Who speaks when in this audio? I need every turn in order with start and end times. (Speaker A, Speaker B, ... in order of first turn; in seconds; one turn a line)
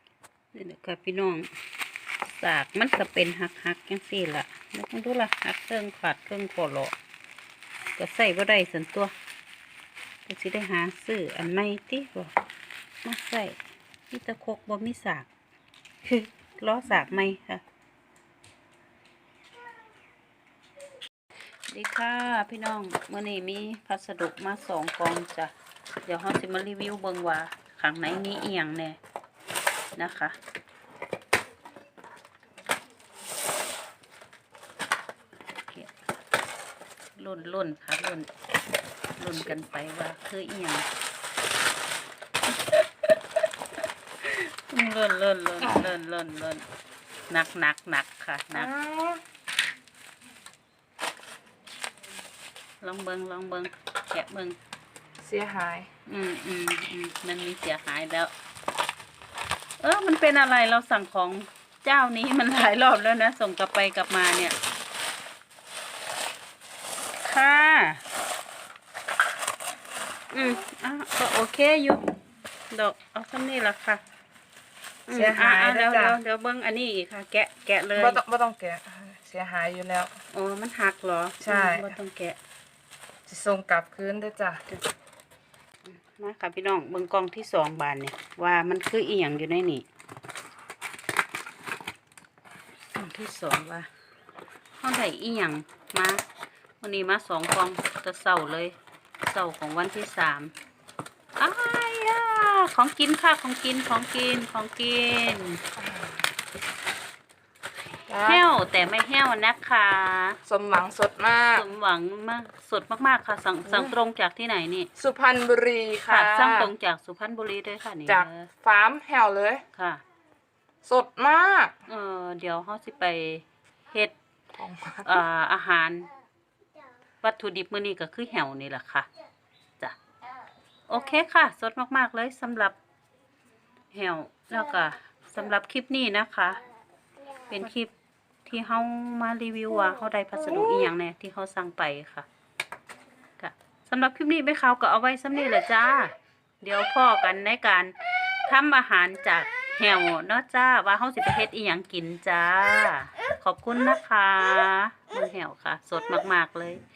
Speaker A: 0.5-1.5
Speaker A: 2.2-6.9
Speaker A: 8.0-9.1
Speaker A: 10.2-12.3
Speaker A: 13.0-13.6
Speaker A: 14.1-15.3
Speaker A: 16.0-17.6
Speaker A: 21.7-25.5
Speaker A: 26.1-29.0
Speaker A: 29.9-30.4
Speaker A: 37.2-38.3
Speaker A: 39.2-40.9
Speaker A: 44.2-46.6
Speaker B: 45.6-45.9
Speaker A: 47.3-48.7
Speaker B: 48.5-49.2
Speaker A: 52.8-54.6
Speaker B: 55.2-55.9
Speaker A: 56.0-58.3
Speaker A: 59.8-64.5
Speaker A: 67.2-68.0
Speaker A: 70.3-72.0
Speaker A: 72.7-74.0
Speaker A: 75.1-78.2
Speaker B: 75.1-76.2
Speaker B: 77.9-80.2
Speaker A: 80.3-82.4
Speaker B: 81.4-82.0
Speaker B: 83.3-84.6
Speaker A: 85.8-89.8
Speaker A: 92.9-93.9
Speaker A: 94.8-96.2
Speaker A: 96.8-100.5
Speaker A: 101.4-105.6
Speaker B: 105.8-106.2
Speaker B: 108.1-108.4
Speaker A: 108.2-110.4
Speaker B: 110.5-111.7
Speaker A: 111.5-114.9
Speaker B: 113.7-113.9
Speaker B: 115.0-116.7
Speaker A: 116.0-118.5
Speaker B: 118.1-119.6
Speaker A: 119.7-120.0
Speaker B: 120.8-121.7
Speaker A: 121.9-124.1
Speaker B: 124.6-125.1
Speaker A: 125.0-126.1
Speaker A: 127.2-129.1
Speaker A: 130.9-132.8
Speaker A: 133.9-136.6
Speaker A: 137.5-137.9
Speaker A: 138.4-142.2
Speaker A: 143.4-156.8